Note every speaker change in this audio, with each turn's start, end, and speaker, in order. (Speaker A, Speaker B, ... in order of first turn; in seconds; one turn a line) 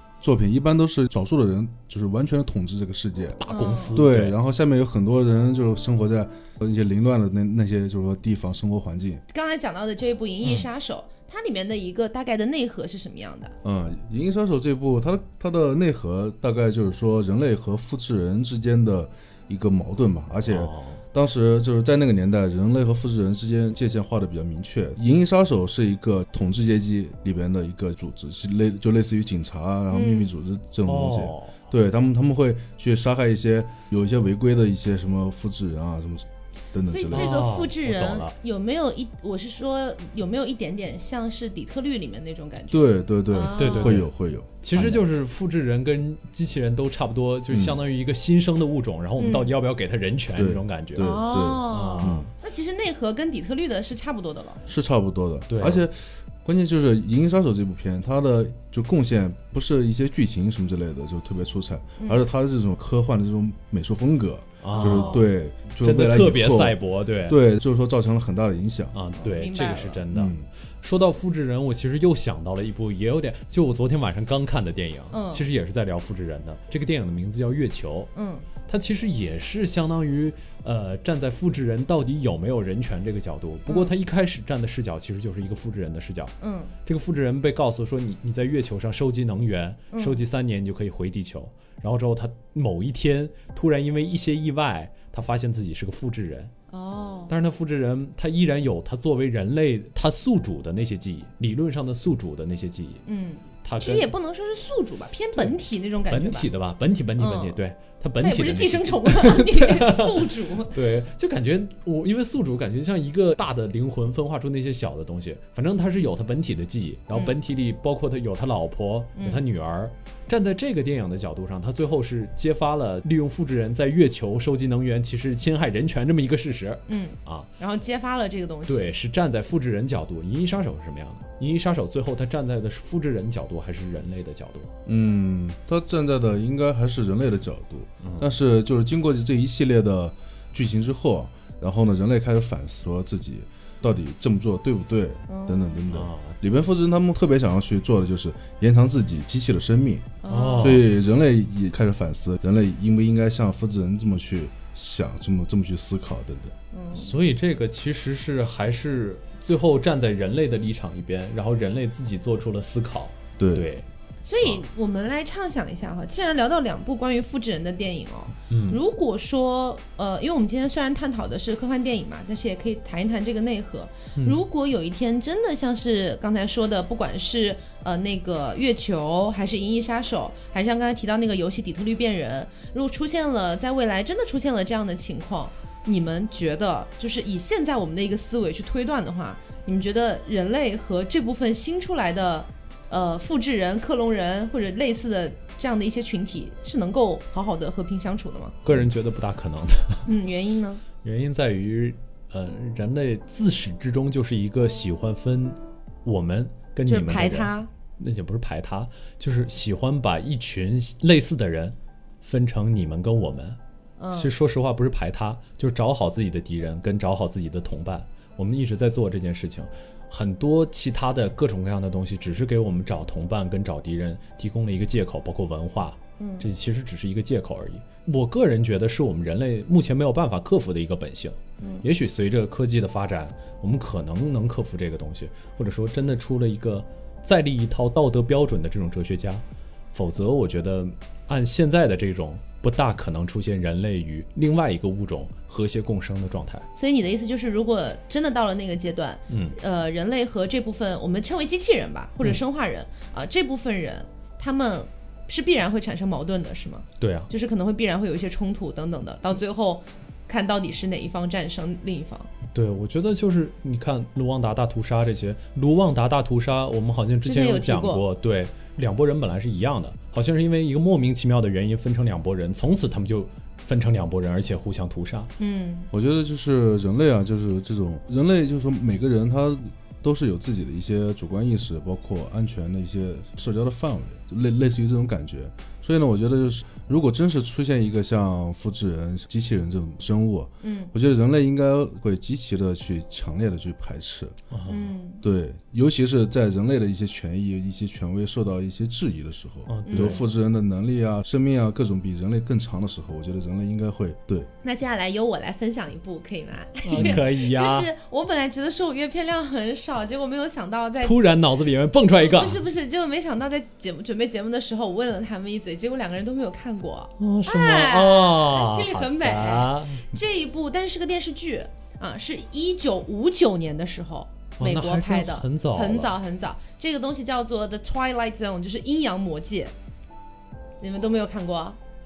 Speaker A: 0.2-3.4
Speaker B: 3.4-4.3
Speaker C: 3.5-4.0
Speaker A: 3.9-9.2
Speaker C: 9.3-13.5
Speaker A: 13.6-37.3
Speaker B: 20.5-21.0
Speaker C: 29.9-30.3
Speaker B: 30.8-31.5
Speaker C: 36.8-44.0
Speaker B: 37.1-38.3
Speaker A: 42.7-45.1
Speaker B: 43.5-44.1
Speaker B: 44.6-52.3
Speaker A: 47.5-47.8
Speaker C: 49.2-49.5
Speaker A: 50.3-52.3
Speaker C: 51.0-54.6
Speaker A: 54.7-69.0
Speaker B: 55.5-55.9
Speaker B: 64.6-65.2
Speaker C: 64.7-65.2
Speaker B: 65.8-67.4
Speaker B: 68.9-78.1
Speaker C: 69.2-70.0
Speaker A: 70.1-70.5
Speaker C: 75.1-75.4
Speaker C: 78.1-78.5
Speaker B: 78.6-96.5
Speaker C: 83.7-83.9
Speaker C: 86.4-86.7
Speaker C: 89.9-90.2
Speaker C: 96.7-97.3
Speaker B: 97.3-103.0
Speaker C: 103.0-106.5
Speaker B: 103.6-104.1
Speaker B: 106.1-127.5
Speaker C: 107.2-107.6
Speaker C: 108.2-110.8
Speaker C: 119.2-119.4
Speaker C: 126.9-128.9
Speaker B: 128.7-134.7
Speaker A: 134.8-156.5
Speaker B: 138.0-138.4
Speaker C: 145.3-145.8
Speaker B: 145.9-146.3
Speaker C: 150.2-150.8
Speaker B: 150.2-150.9
Speaker C: 156.7-157.1
Speaker B: 156.9-163.8
Speaker A: 163.4-163.7
Speaker C: 164.2-198.6
Speaker B: 168.5-168.8
Speaker B: 198.6-200.1
Speaker C: 200.1-200.8
Speaker B: 201.0-213.6
Speaker C: 206.8-207.7
Speaker C: 214.0-214.3
Speaker B: 214.1-239.4
Speaker C: 226.2-226.4
Speaker B: 239.9-246.7
Speaker C: 246.8-262.3
Speaker B: 249.3-249.6
Speaker B: 257.0-257.3
Speaker B: 262.5-275.3
Speaker C: 267.2-268.0
Speaker C: 275.4-275.9
Speaker A: 275.9-294.4
Speaker C: 290.6-290.9
Speaker B: 294.5-294.9
Speaker C: 294.7-295.2
Speaker A: 295.2-304.5
Speaker B: 299.7-300.2
Speaker C: 299.8-300.2
Speaker C: 304.6-311.2
Speaker B: 306.9-307.9
Speaker B: 311.0-312.6
Speaker C: 312.1-329.7
Speaker B: 317.2-320.1
Speaker B: 324.6-326.1
Speaker C: 330.8-331.8